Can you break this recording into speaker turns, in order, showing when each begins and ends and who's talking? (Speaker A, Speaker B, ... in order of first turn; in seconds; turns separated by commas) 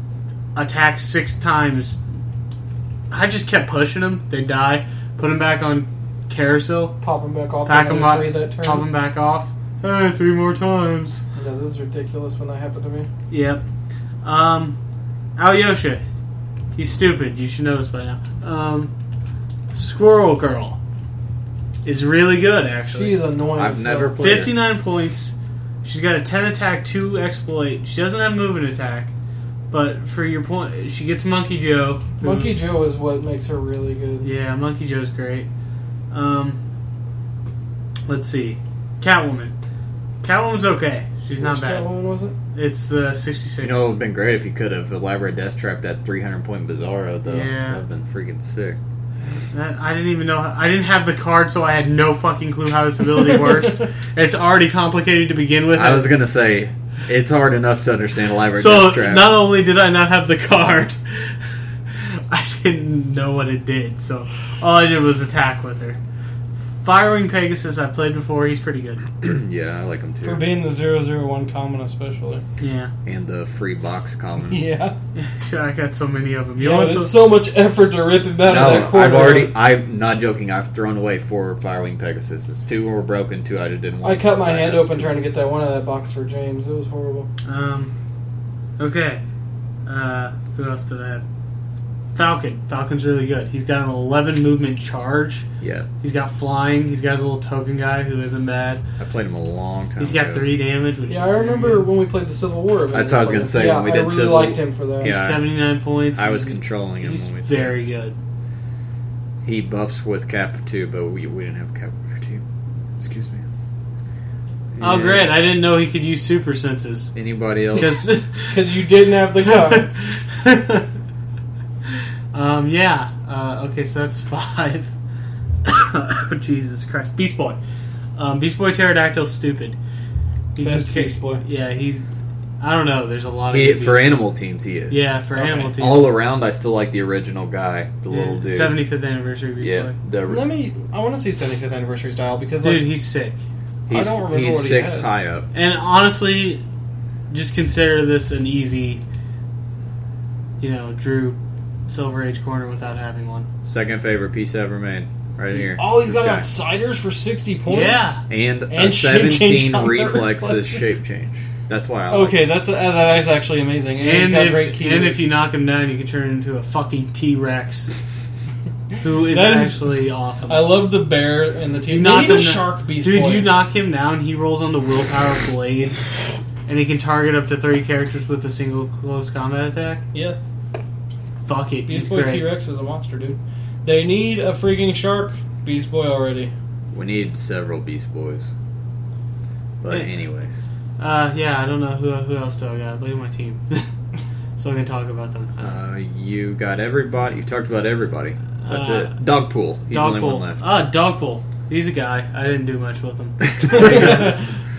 Speaker A: 0.6-2.0, Speaker A: 3.1-7.0, Speaker B: 7.0-8.9, Speaker A: 7.7-11.2, Speaker B: 11.4-13.1, Speaker A: 13.3-13.6, Speaker A: 14.2-14.8, Speaker A: 15.4-16.0, Speaker A: 16.8-18.9, Speaker A: 19.7-20.8, Speaker A: 21.8-23.2, Speaker B: 22.9-24.2, Speaker C: 23.6-24.6, Speaker A: 24.2-29.1, Speaker A: 29.7-32.6, Speaker B: 32.2-34.3, Speaker A: 34.2-35.5, Speaker A: 36.1-36.6, Speaker A: 38.1-39.5, Speaker A: 40.2-41.9, Speaker B: 41.4-42.4, Speaker A: 42.5-43.9, Speaker C: 43.6-48.8, Speaker A: 47.3-47.8, Speaker A: 49.5-56.1, Speaker C: 55.7-59.4, Speaker A: 58.5-66.0, Speaker A: 66.8-69.2, Speaker C: 69.2-70.4, Speaker B: 70.2-72.4, Speaker A: 72.6-72.9, Speaker C: 73.1-74.6, Speaker B: 74.5-74.9, Speaker A: 75.2-77.2, Speaker B: 76.6-79.5, Speaker C: 78.5-85.2, Speaker B: 84.0-87.3, Speaker A: 87.5-87.9, Speaker A: 88.8-89.2, Speaker A: 89.9-91.2, Speaker A: 92.1-95.4, Speaker C: 95.6-95.9, Speaker A: 96.0-98.8, Speaker C: 99.0-100.5, Speaker A: 100.0-101.9, Speaker B: 101.1-105.1, Speaker C: 102.9-105.5, Speaker A: 105.0-108.2, Speaker C: 106.1-107.8, Speaker C: 109.4-112.4, Speaker C: 113.0-113.5, Speaker C: 114.7-115.3, Speaker A: 114.8-117.1, Speaker C: 117.2-118.0, Speaker A: 117.7-120.9, Speaker B: 118.5-120.0, Speaker A: 122.3-124.9, Speaker A: 125.7-127.6, Speaker A: 128.2-129.8, Speaker A: 130.6-132.1, Speaker B: 130.6-131.4, Speaker A: 132.6-134.2, Speaker C: 133.5-138.8, Speaker A: 134.9-136.1, Speaker B: 135.4-135.7, Speaker A: 138.1-139.9, Speaker C: 139.6-140.4, Speaker B: 140.3-142.9, Speaker A: 142.6-143.4, Speaker C: 143.9-145.5, Speaker B: 143.9-145.1, Speaker A: 145.5-146.6, Speaker A: 147.3-149.0, Speaker A: 150.6-153.5, Speaker C: 153.7-156.5, Speaker B: 155.6-158.2, Speaker A: 157.7-158.2, Speaker C: 158.3-162.3, Speaker B: 158.7-160.8, Speaker B: 162.1-165.3, Speaker A: 164.0-167.9, Speaker A: 169.0-170.7, Speaker B: 169.3-169.9, Speaker B: 170.5-173.5, Speaker A: 171.9-176.0, Speaker A: 176.7-180.0, Speaker A: 181.4-182.5, Speaker B: 181.9-186.5, Speaker C: 186.9-188.5, Speaker C: 189.8-190.6, Speaker A: 191.0-193.9, Speaker A: 194.6-195.7, Speaker C: 195.6-200.6, Speaker A: 198.6-199.2, Speaker A: 199.9-204.3, Speaker C: 203.5-204.3, Speaker B: 203.7-204.4